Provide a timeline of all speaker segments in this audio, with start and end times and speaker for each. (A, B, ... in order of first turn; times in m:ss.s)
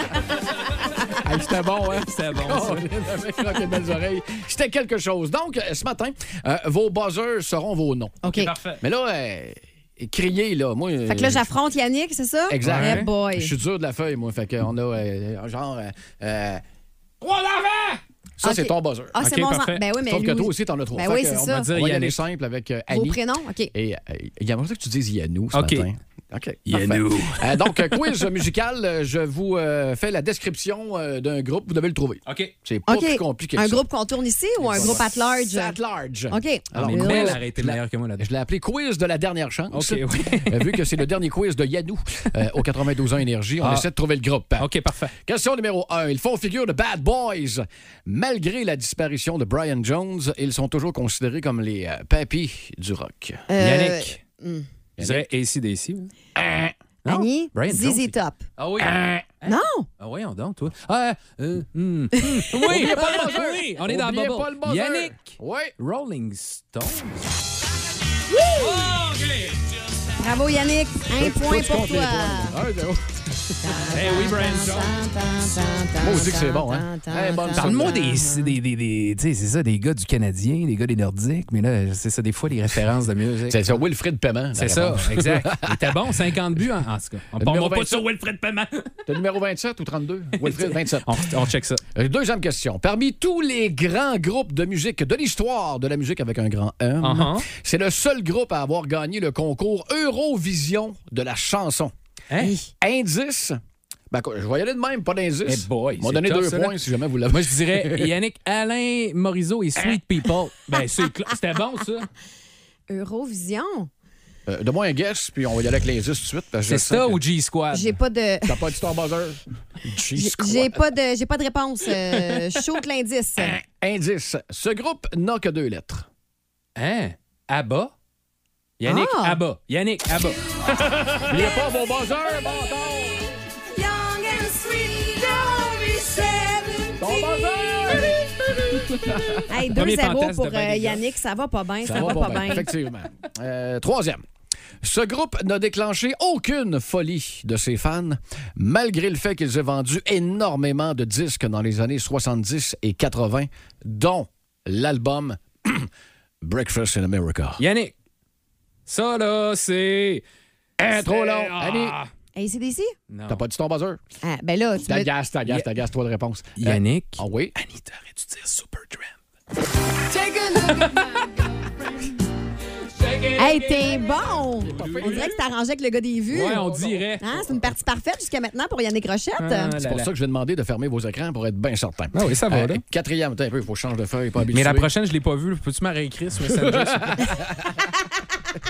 0:00.5-0:01.2 A
0:01.1-0:08.2 B
0:02.0-0:02.9 A
0:08.2-0:08.5 C
0:08.3-0:08.8 A
0:08.8-0:11.5 B
0:11.1-0:13.5 C
0:12.5-0:16.6 B
0:12.6-0:13.1 A
0:17.2-0:18.0 A
0:18.4-0:19.2 B
0:18.4-0:21.7 C
0:19.2-0:19.8 A
0:20.0-0:23.2 B
0:21.6-0:22.2 A
0:22.9-0:23.7 C
0:23.7-0:33.8 B
0:25.5-0:25.9 A
0:26.7-0:28.3 A
0:32.2-0:32.5 A
0:32.9-0:35.7 C
0:34.6-0:53.4 B
0:34.7-0:35.0 A
0:36.3-0:37.4 C
0:36.8-0:38.3 A
0:39.7-0:40.9 A
0:43.6-0:43.9 A
0:44.6-0:45.1 A
0:53.5-0:54.7 C
0:53.6-0:54.2 A
0:55.0-0:55.3 B
0:55.0-0:56.1 A
0:56.4-0:56.7 B
0:57.0-0:58.4 C
0:57.0-1:07.3 A
0:58.8-0:59.2 B
0:59.4-0:59.9 C
1:02.6-1:05.7 B
1:08.3-1:08.9 C
1:08.6-1:09.7 A
1:10.2-1:12.6 C
1:11.2-1:13.8 B
1:13.6-1:18.5 C
1:13.9-1:15.0 A
1:16.0-1:18.0 B
1:17.6-1:23.7 A
1:23.5-1:26.3 B
1:24.6-1:29.0 A
1:27.4-1:28.0 B
1:29.1-1:41.9 B
1:30.4-1:31.8 A
1:37.0-1:37.5 A
1:42.3-1:42.5 A
1:42.4-1:42.7 C
1:42.8-1:43.6 B
1:44.1-1:48.1 B
1:45.4-1:46.8 A
1:47.3-1:52.1 A
1:52.9-1:53.9 C
1:54.5-1:57.2 B
1:56.7-1:58.0 A
1:57.7-1:58.6 C
1:58.4-2:00.8 B
2:00.2-2:03.6 C
2:03.4-2:06.0 B
2:06.8-2:07.9 A
2:08.8-2:11.3 A
2:08.9-2:09.4 C
2:11.3-2:13.2 B
2:13.7-2:18.0 C
2:17.0-2:19.4 B
2:19.5-2:22.7 C
2:19.7-2:21.0 A
2:21.8-2:24.2 B
2:22.0-2:22.5 A
2:24.8-2:35.9 B
2:36.4-2:37.6 B
2:37.6-2:37.9 A
2:38.9-2:40.2 A
2:40.8-2:42.0 B
2:40.8-2:42.1 A
2:42.3-2:42.9 C
2:43.1-2:43.4 A
2:43.3-2:44.0 B
2:44.2-2:45.1 C
2:44.8-2:47.5 B
2:46.6-2:49.1 A
2:50.1-2:50.9 C
2:50.6-2:51.3 A
2:53.0-2:55.3 A
2:53.4-2:56.6 C
2:54.6-2:55.3 B
2:56.3-2:57.6 A
2:56.6-2:57.0 B
2:57.2-2:59.7 C
2:59.4-3:00.1 A
2:59.8-3:04.9 B
3:02.1-3:02.8 A
3:04.5-3:07.5 A
3:06.5-3:07.7 B